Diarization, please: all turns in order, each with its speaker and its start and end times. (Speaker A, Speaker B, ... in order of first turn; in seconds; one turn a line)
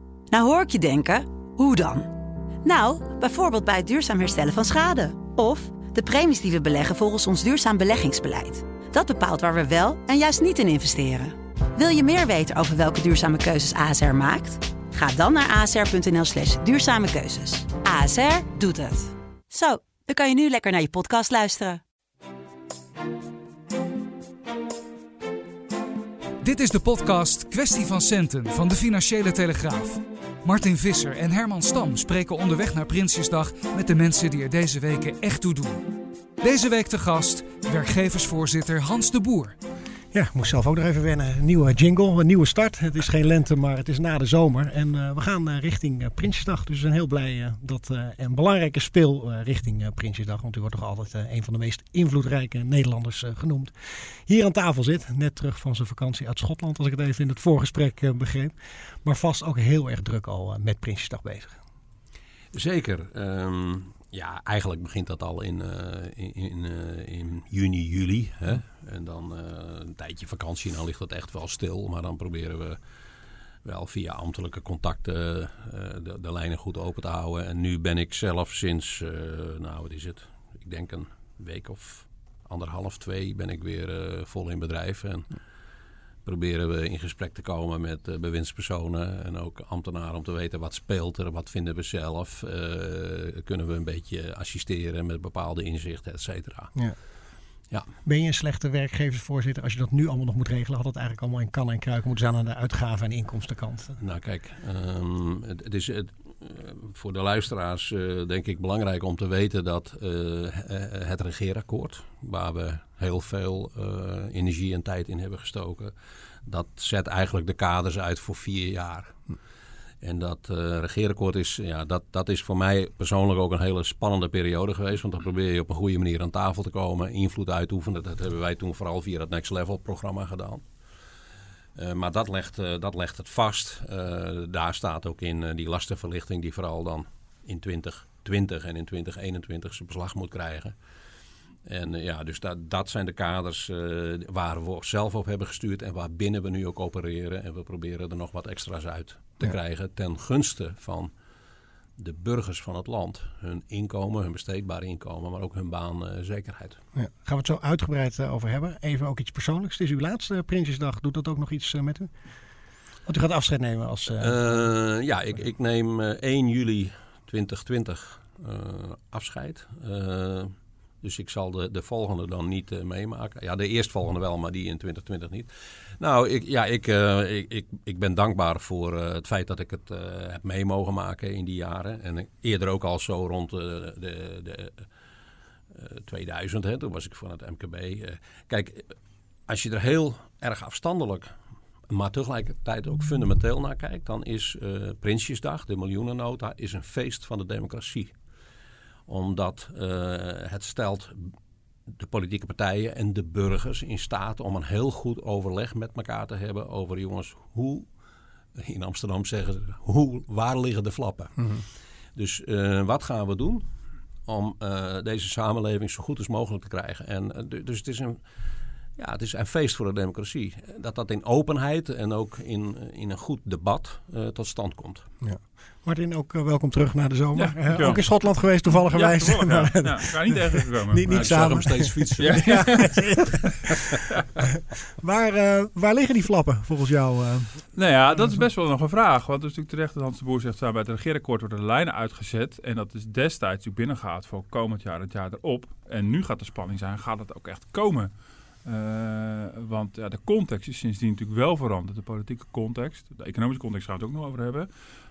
Speaker A: 0.3-2.1
Speaker A: 2.6-21.8
Speaker B: 26.4-39.6
Speaker C: 40.1-53.7
Speaker C: 54.3-61.6
Speaker D: 62.5-72.8
Speaker D: 73.6-85.3
Speaker D: 86.2-96.8
Speaker C: 98.0-104.0
Speaker D: 104.0-115.9
Speaker D: 116.5-119.2
Speaker D: 120.0-130.6
Speaker D: 131.8-140.8
Speaker D: 141.7-151.1
Speaker D: 152.0-156.8
Speaker C: 156.9-162.1
Speaker C: 163.1-164.4
Speaker D: 164.2-184.8
Speaker D: 185.7-188.9
Speaker D: 189.5-191.3
Speaker D: 191.9-198.1
Speaker D: 199.1-201.3
Speaker D: 201.9-207.9
Speaker D: 208.6-211.6
Speaker D: 212.2-213.7
Speaker D: 214.3-218.2
Speaker D: 219.0-225.1
Speaker C: 225.2-237.7
Speaker E: 227.4-228.0
Speaker E: 228.8-231.6
Speaker D: 231.1-232.5
Speaker E: 232.2-234.3
Speaker E: 237.7-248.1
Speaker E: 248.7-254.7